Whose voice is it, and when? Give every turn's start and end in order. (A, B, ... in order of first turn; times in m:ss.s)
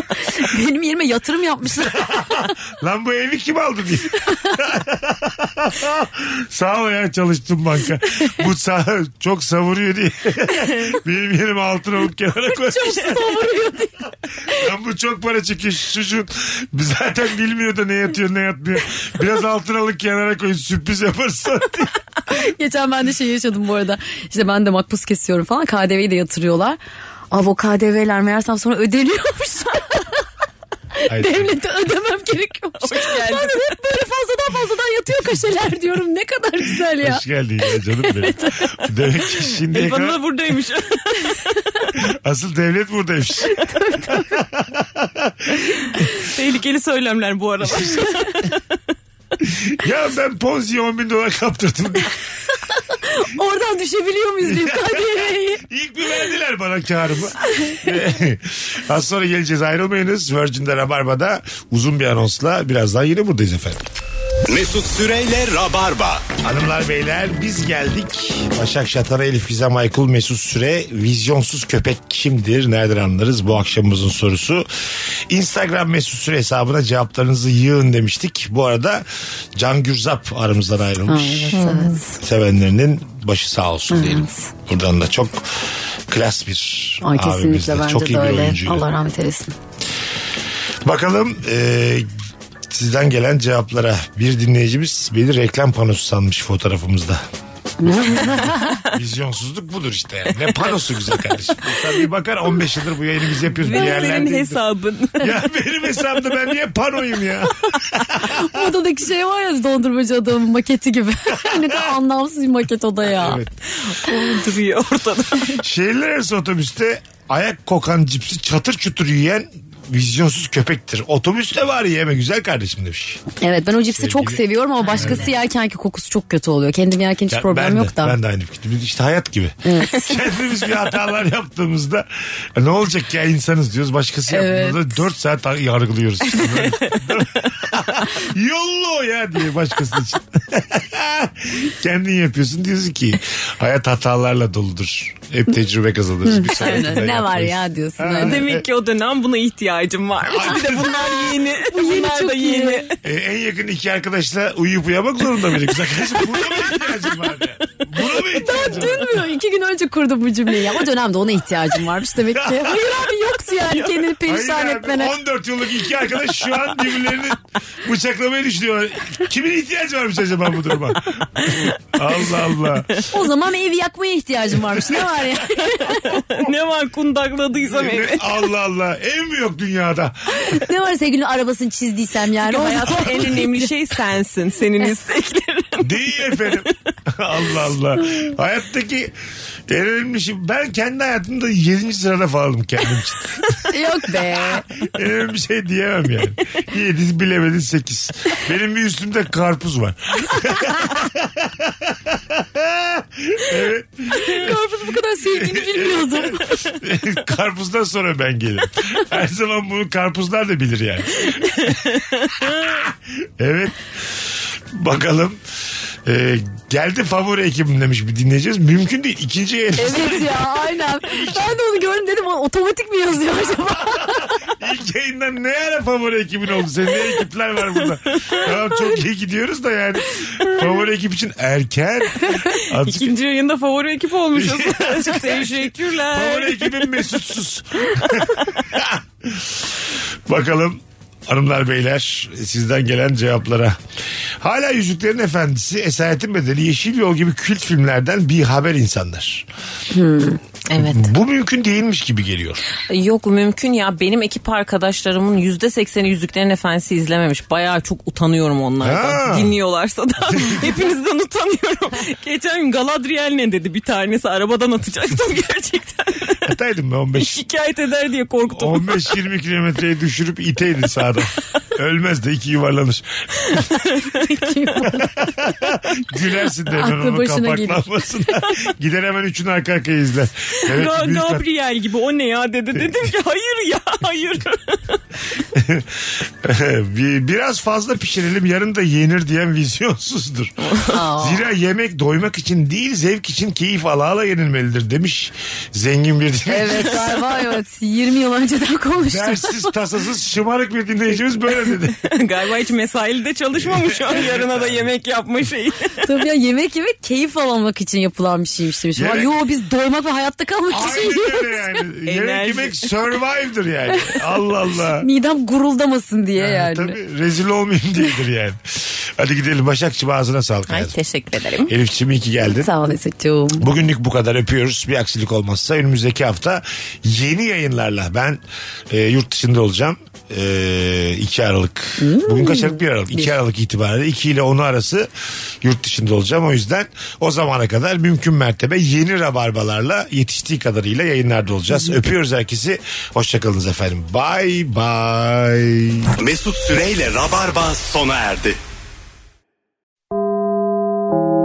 0:00.2-0:02.3 A
0:01.8-0:13.5 B
0:12.5-0:14.6 A
0:14.5-0:21.9 B
0:22.3-0:26.8 A
0:27.3-0:30.2 A
0:31.0-0:37.2 A
0:31.1-0:31.6 B
0:32.8-0:33.7 C
0:36.6-0:40.2 B
0:38.0-0:38.9 A
0:39.7-0:41.5 C
0:42.0-0:46.1 B
0:43.5-0:44.4 A
0:46.2-0:48.7 C
0:47.6-0:48.0 B
0:49.4-0:52.2 B
0:52.9-0:55.6 A
0:54.4-1:03.8 B
1:04.7-1:05.0 D
1:05.7-1:06.2 D
1:06.4-1:14.7 B
1:15.3-1:21.6 B
1:21.1-1:22.2 A
1:21.5-1:22.0 C
1:22.2-1:28.9 B
1:23.9-1:24.5 A
1:27.0-1:29.5 A
1:30.8-1:32.1 B
1:32.7-1:37.2 B
1:37.8-1:38.8 A
1:37.9-1:44.6 B
1:43.6-1:45.4 C
1:43.7-1:44.2 A
1:45.2-1:48.6 B
1:48.2-1:53.4 A
1:51.3-1:51.9 B
1:53.0-1:53.6 B
1:53.8-1:55.6 C
1:55.6-2:05.3 B
2:03.4-2:08.2 A
2:07.3-2:28.6 B
2:09.7-2:10.1 A
2:14.3-2:15.0 A
2:16.4-2:17.0 C
2:26.3-2:28.4 A
2:28.2-2:33.0 C
2:30.2-2:31.1 B
2:30.7-2:32.9 A
2:33.0-2:39.2 B
2:38.3-2:45.2 A
2:42.2-2:43.0 B
2:44.2-2:53.0 B
2:53.1-2:56.2 A
2:54.7-2:55.2 B
2:56.0-2:58.4 C
2:57.7-3:00.6 B
3:00.4-3:03.7 A
3:02.4-3:06.7 C
3:05.8-3:09.1 B
3:09.7-3:13.6 B
3:13.7-3:14.6 A
3:14.2-3:24.6 B
3:24.2-3:26.4 A
3:25.2-3:33.8 B
3:32.2-3:32.5 C
3:34.7-3:35.4 B
3:36.0-3:40.5 B
3:39.8-3:44.5 A
3:41.0-3:41.6 B
3:43.7-3:53.1 B
3:52.8-3:56.9 C
3:54.4-4:03.8 B
4:04.4-4:09.5 B
4:09.9-4:10.4 A
4:10.7-4:11.1 C
4:10.8-4:12.6 B
4:12.9-4:26.6 C
4:18.8-4:19.6 B
4:20.3-4:20.8 B
4:26.4-4:27.4 B
4:27.2-4:29.2 C
4:28.5-4:33.7 B
4:33.5-4:35.0 C
4:34.3-4:35.2 A
4:35.0-4:41.4 B
4:36.7-4:38.0 A
4:40.7-4:45.0 C
4:45.5-4:57.2 B
4:50.6-4:51.0 C
4:50.9-4:51.5 A
4:56.5-4:59.7 A
4:59.0-5:02.1 B
5:02.0-5:06.0 C
5:03.5-5:04.9 B
5:06.0-5:11.7 A
5:09.0-5:09.3 B
5:10.7-5:15.1 B
5:12.1-5:12.9 C
5:15.0-5:17.0 A
5:16.4-5:21.0 B
5:20.7-5:21.7 C
5:21.7-5:22.7 B
5:22.5-5:23.7 A
5:23.6-5:35.1 B
5:32.0-5:33.3 A
5:35.6-5:46.1 B
5:46.2-5:48.6 D